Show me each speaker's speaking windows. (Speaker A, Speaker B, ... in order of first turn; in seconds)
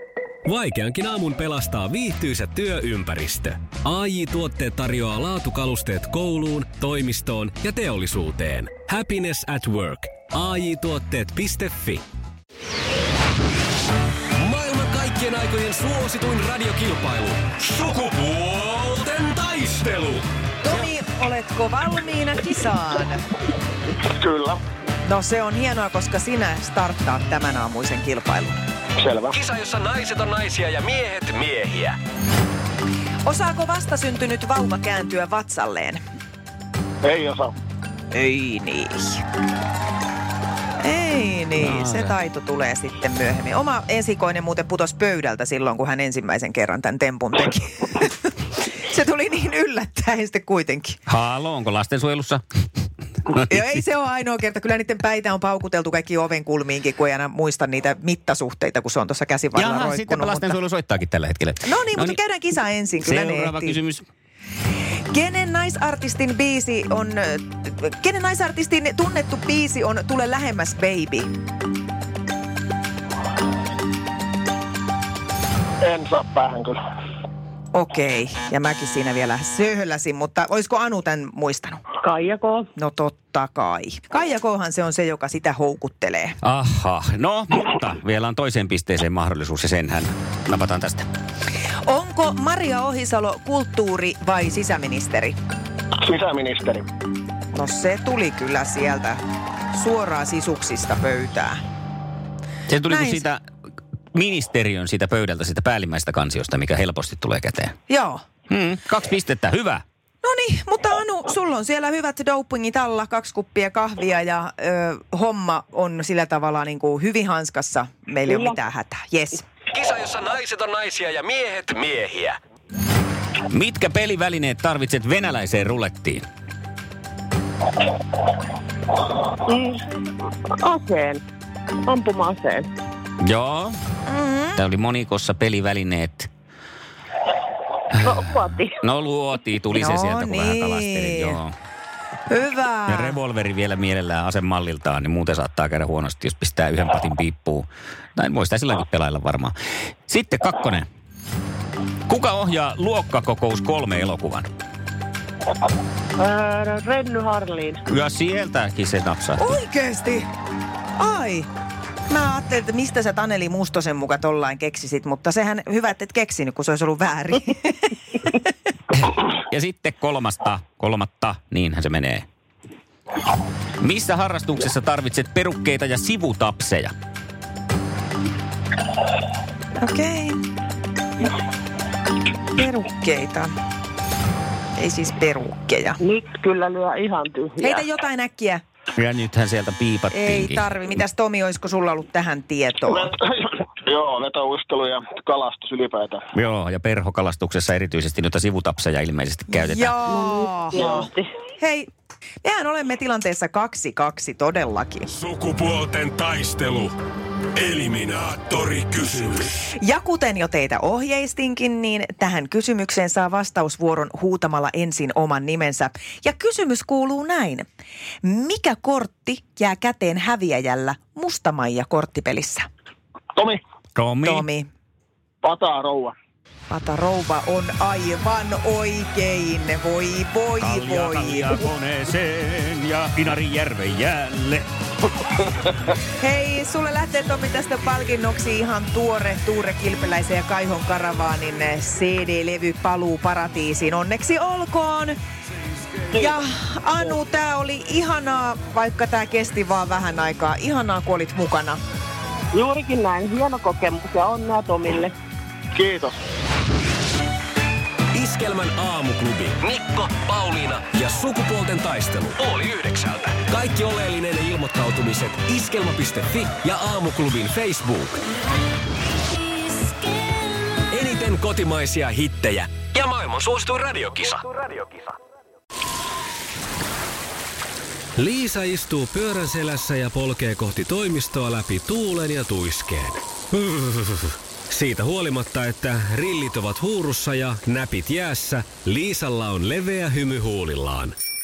Speaker A: 0.4-12.0, 14.3-20.3, 29.3-32.0, 119.7-122.4, 205.1-206.9, 207.6-209.6, 258.1-268.2, 270.9-275.0, 278.1-291.1
Speaker B: 20.6-23.2, 25.0-28.5, 33.2-36.0, 38.1-39.2, 40.8-51.0, 53.3-60.6, 61.6-63.8, 65.1-71.3, 77.7-81.8, 82.8-86.4, 91.8-95.3, 97.5-99.2, 99.7-101.6, 102.9-103.2, 107.9-108.2, 110.2-119.4, 134.1-134.6, 139.7-141.4, 142.3-143.2, 159.4-160.3, 161.0-161.5, 162.1-168.5, 179.8-180.4, 182.6-183.5, 184.8-186.0, 187.6-188.6, 190.1-193.1, 199.5-201.9, 202.4-205.1, 209.7-217.7, 218.2-222.7, 224.2-224.7, 226.7-231.7, 236.2-245.2, 246.1-251.8
Speaker C: 24.0-24.6, 29.0-29.4, 37.0-37.5, 75.8-76.8, 96.0-96.9, 192.9-196.2, 200.8-201.1, 225.4-226.1, 255.7-256.1
Speaker D: 41.6-42.1, 51.1-52.4, 59.5-62.2, 63.0-64.0, 86.4-91.1, 102.7-103.4, 104.1-107.8, 108.5-109.8, 123.5-126.2, 133.2-133.8, 134.6-136.3, 138.7-141.5, 142.9-149.5, 150.1-150.9, 152.1-154.5, 157.9-159.4, 168.9-172.2, 173.8-176.9, 188.9-190.7, 196.3-199.9, 223.9-224.4, 230.6-234.7
Speaker E: 82.0-82.7, 118.3-118.5, 129.4-131.2, 131.8-132.7, 138.0-138.8, 156.2-157.9, 186.0-187.9, 200.1-201.3, 252.5-255.1